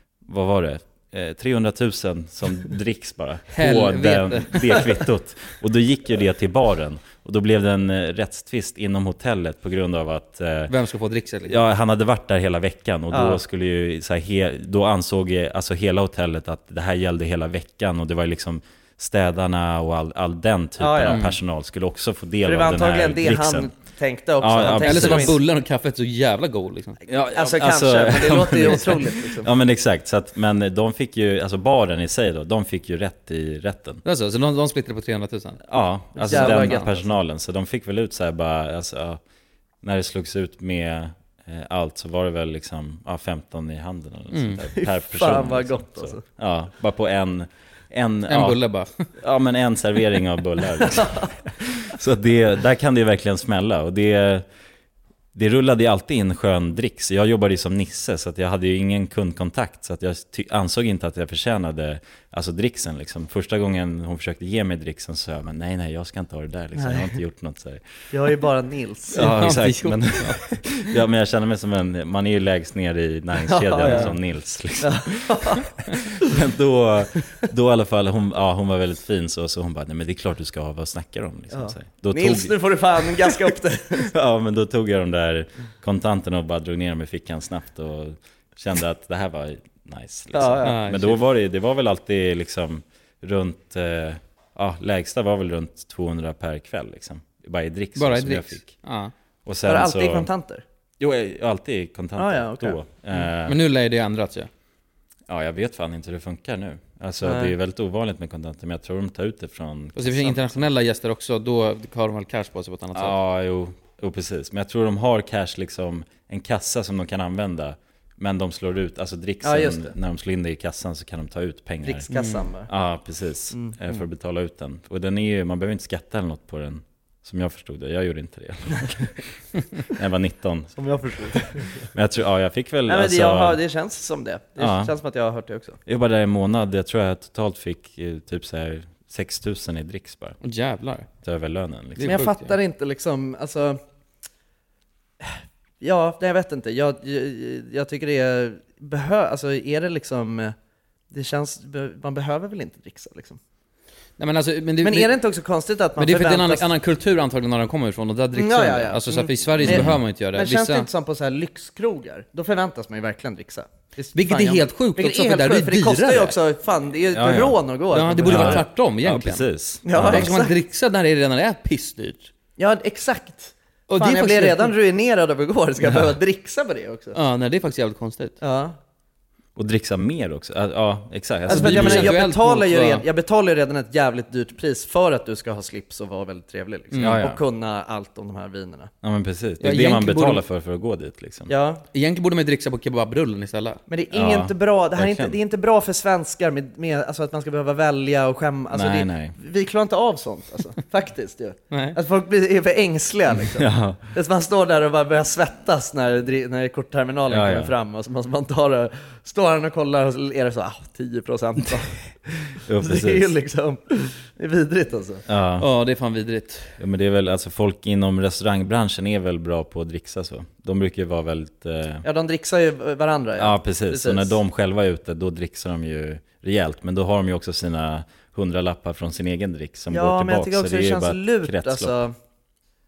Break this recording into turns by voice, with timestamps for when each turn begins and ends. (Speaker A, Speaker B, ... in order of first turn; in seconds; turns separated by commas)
Speaker A: 0.2-10.7, Speaker B: 3.5-4.8, Speaker B: 10.7-11.6, Speaker A: 11.5-23.7, Speaker C: 13.1-13.4, Speaker C: 20.8-21.2, Speaker B: 21.1-21.3, Speaker C: 22.4-25.4, Speaker A: 24.4-25.4, Speaker B: 24.8-27.0, Speaker A: 27.1-34.0, Speaker C: 27.3-29.5, Speaker B: 34.0-35.6, Speaker A: 35.7-39.2, Speaker C: 36.2-37.0, Speaker B: 36.2-36.9, Speaker A: 39.8-48.6, Speaker B: 44.3-44.6, Speaker C: 44.8-46.2, Speaker B: 48.3-49.0, Speaker A: 49.2-54.4, Speaker C: 50.9-51.3, Speaker A: 55.3-67.8, Speaker C: 66.8-67.2, Speaker C: 68.1-69.2, Speaker B: 69.1-70.6, Speaker A: 69.1-83.3, Speaker C: 73.5-74.1, Speaker B: 73.8-74.1, Speaker C: 74.8-75.7, Speaker C: 81.5-84.1, Speaker A: 84.1-98.7, Speaker C: 90.3-90.8, Speaker B: 90.6-91.2, Speaker B: 98.0-99.1, Speaker A: 99.5-100.3, Speaker C: 99.6-100.6, Speaker A: 101.0-103.6, Speaker C: 102.2-102.8, Speaker B: 103.4-104.5, Speaker A: 105.3-110.5, Speaker C: 107.2-107.5, Speaker B: 110.0-113.2, Speaker A: 112.9-122.1, Speaker C: 119.4-119.9, Speaker C: 121.8-122.7, Speaker B: 122.1-122.5, Speaker A: 122.7-129.1, Speaker A: 129.8-130.8, Speaker C: 130.8-131.9, Speaker A: 131.9-133.6, Speaker C: 132.9-135.8, Speaker A: 134.6-134.9, Speaker A: 135.8-140.4, Speaker B: 140.4-141.1, Speaker A: 141.2-142.2, Speaker B: 141.9-142.5, Speaker C: 142.0-143.8, Speaker C: 145.2-150.5, Speaker C: 151.1-153.4, Speaker B: 154.2-155.1, Speaker C: 154.8-156.7, Speaker B: 156.0-160.9, Speaker C: 158.3-168.7, Speaker A: 159.6-160.0, Speaker B: 164.1-166.3, Speaker A: 167.1-167.6, Speaker B: 167.9-169.4, Speaker A: 168.2-170.3, Speaker C: 169.8-170.6, Speaker B: 169.9-172.3, Speaker C: 172.6-177.2, Speaker B: 173.9-174.7, Speaker B: 177.1-178.4, Speaker C: 178.4-178.8, Speaker A: 179.6-182.1, Speaker B: 181.5-183.0, Speaker C: 181.5-188.9, Speaker B: 186.9-187.2, Speaker A: 187.0-187.4, Speaker A: 189.0-191.5, Speaker B: 189.6-190.4, Speaker C: 191.5-191.8, Speaker B: 191.9-193.8, Speaker C: 193.9-211.9, Speaker A: 194.1-195.4, Speaker A: 198.7-199.3, Speaker B: 201.7-202.0, Speaker A: 203.6-204.0, Speaker A: 207.3-207.7, Speaker A: 212.6-213.3, Speaker C: 212.8-215.2, Speaker A: 215.3-215.7, Speaker B: 215.6-216.8, Speaker A: 216.8-222.0, Speaker C: 222.0-224.4, Speaker A: 223.4-231.9, Speaker C: 229.9-232.1